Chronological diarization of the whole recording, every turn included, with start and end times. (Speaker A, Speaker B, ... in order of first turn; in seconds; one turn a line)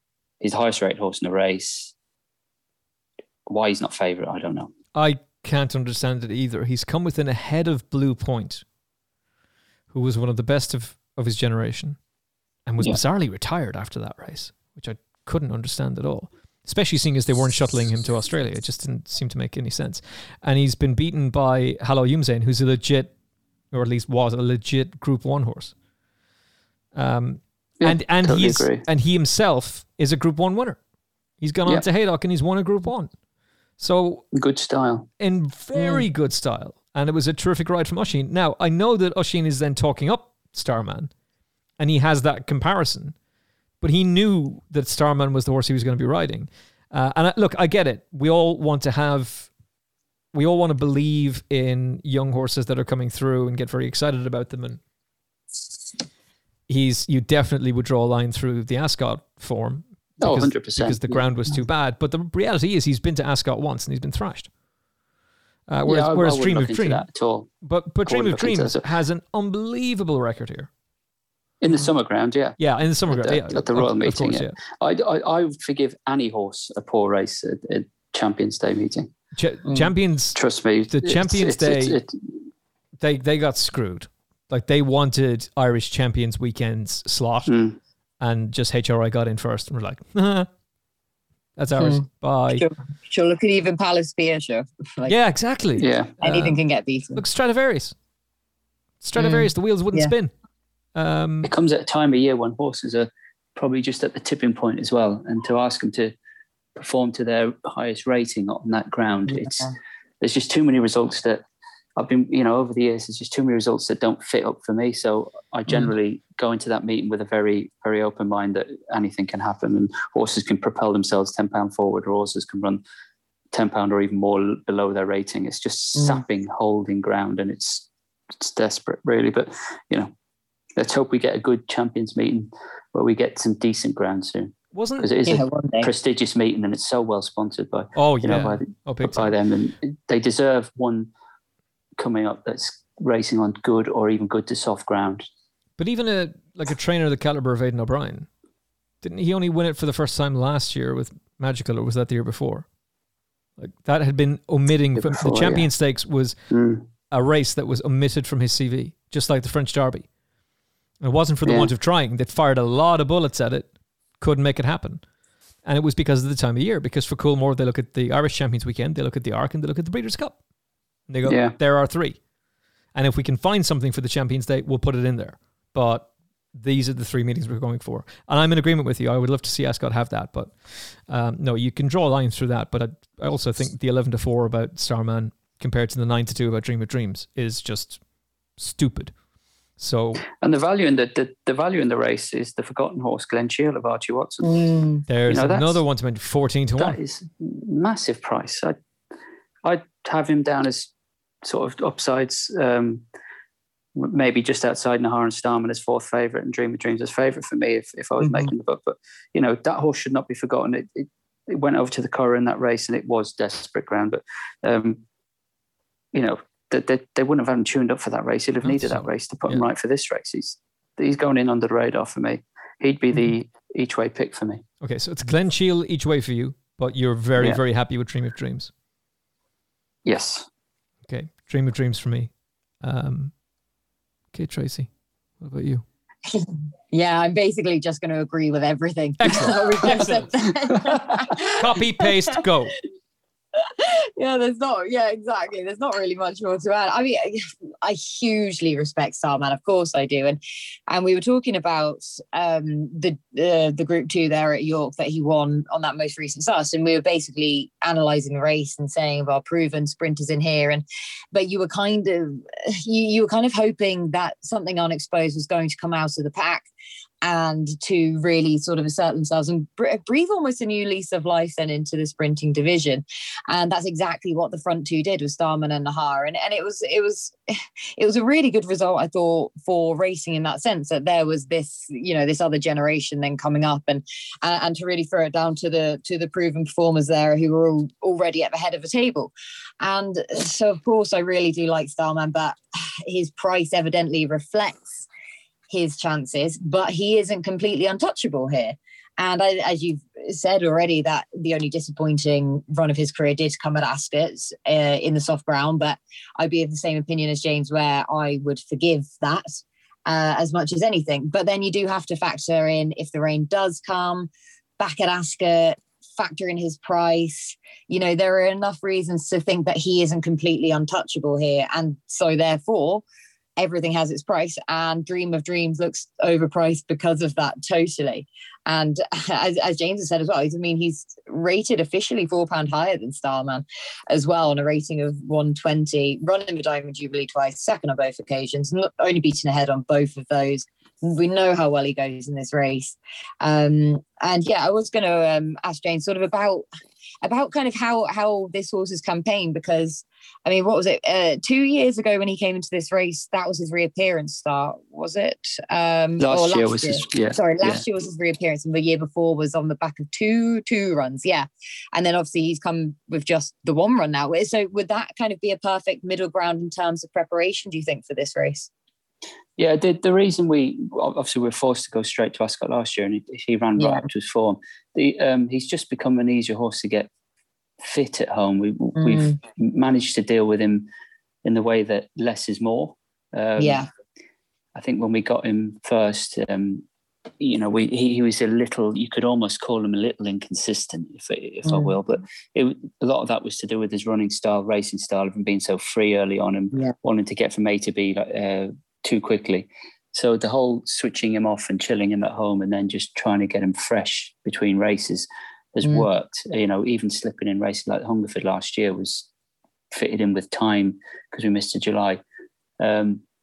Speaker A: 0.4-1.9
Speaker A: 3.5-4.7
Speaker B: 4.9-8.6
Speaker B: 9.9-12.0
Speaker B: 12.7-23.1
Speaker B: 23.7-25.7
Speaker B: 26.9-30.8
Speaker A: 27.8-28.9
Speaker B: 31.4-33.1
Speaker B: 33.8-34.3
Speaker A: 34.3-35.1
Speaker B: 35.2-41.1
Speaker B: 41.8-43.1
Speaker B: 43.8-49.5
Speaker B: 50.3-54.8
Speaker B: 56.7-64.5
Speaker A: 60.2-61.6
Speaker B: 65.7-67.0
Speaker A: 65.9-67.5
Speaker B: 67.6-70.7
Speaker A: 68.1-68.9
Speaker A: 71.6-79.1
Speaker B: 72.6-74.6
Speaker B: 79.4-80.4
Speaker A: 80.3-82.2
Speaker B: 80.9-82.0
Speaker B: 83.0-87.5
Speaker A: 87.5-87.8
Speaker B: 88.2-90.5
Speaker B: 91.6-92.7
Speaker C: 91.8-92.0
Speaker C: 92.6-95.2
Speaker B: 95.1-96.6
Speaker A: 95.8-96.1
Speaker C: 96.2-97.2
Speaker B: 97.2-98.0
Speaker B: 99.0-100.3
Speaker C: 99.2-100.1
Speaker B: 101.0-101.5
Speaker A: 101.4-106.1
Speaker A: 106.8-111.4
Speaker A: 112.0-122.8
Speaker A: 123.5-127.8
Speaker C: 126.0-126.2
Speaker A: 128.4-130.1
Speaker A: 130.8-141.1
Speaker B: 134.7-135.1
Speaker C: 135.3-135.9
Speaker B: 138.0-139.3
Speaker A: 142.0-145.3
Speaker B: 145.8-148.3
Speaker B: 149.0-152.7
Speaker B: 153.6-156.4
Speaker A: 155.0-155.7
Speaker A: 156.5-156.8
Speaker B: 157.1-160.1
Speaker B: 161.0-165.0
Speaker A: 161.4-161.7
Speaker B: 165.6-170.4
Speaker B: 171.1-172.2
Speaker A: 171.2-171.6
Speaker B: 172.9-188.0
Speaker B: 188.6-189.2
Speaker B: 189.8-190.2
Speaker A: 190.4-194.7
Speaker C: 194.4-195.0
Speaker B: 195.1-197.0
Speaker A: 195.3-195.8
Speaker A: 196.8-198.8
Speaker A: 199.6-200.9
Speaker A: 201.4-203.0
Speaker A: 204.0-215.0
Speaker C: 208.2-208.5
Speaker A: 216.1-224.6
Speaker B: 218.6-219.6
Speaker B: 224.8-228.7
Speaker A: 230.1-230.5
Speaker B: 231.1-233.3
Speaker B: 234.3-235.8
Speaker C: 236.3-241.6
Speaker B: 239.2-240.3
Speaker B: 241.4-242.8
Speaker C: 243.7-266.7
Speaker C: 267.2-277.4
Speaker C: 278.0-295.1
Speaker C: 295.7-323.0
Speaker C: 323.6-346.6
Speaker C: 347.2-368.7
Speaker A: 356.2-357.8
Speaker A: 369.6-377.1
Speaker C: 373.8-374.1
Speaker A: 377.8-380.9
Speaker C: 379.0-379.4
Speaker A: 381.4-383.8
Speaker C: 383.6-383.9
Speaker A: 384.8-386.9
Speaker A: 387.4-409.3
Speaker C: 391.6-391.9
Speaker A: 409.9-412.2
Speaker A: 412.8-413.2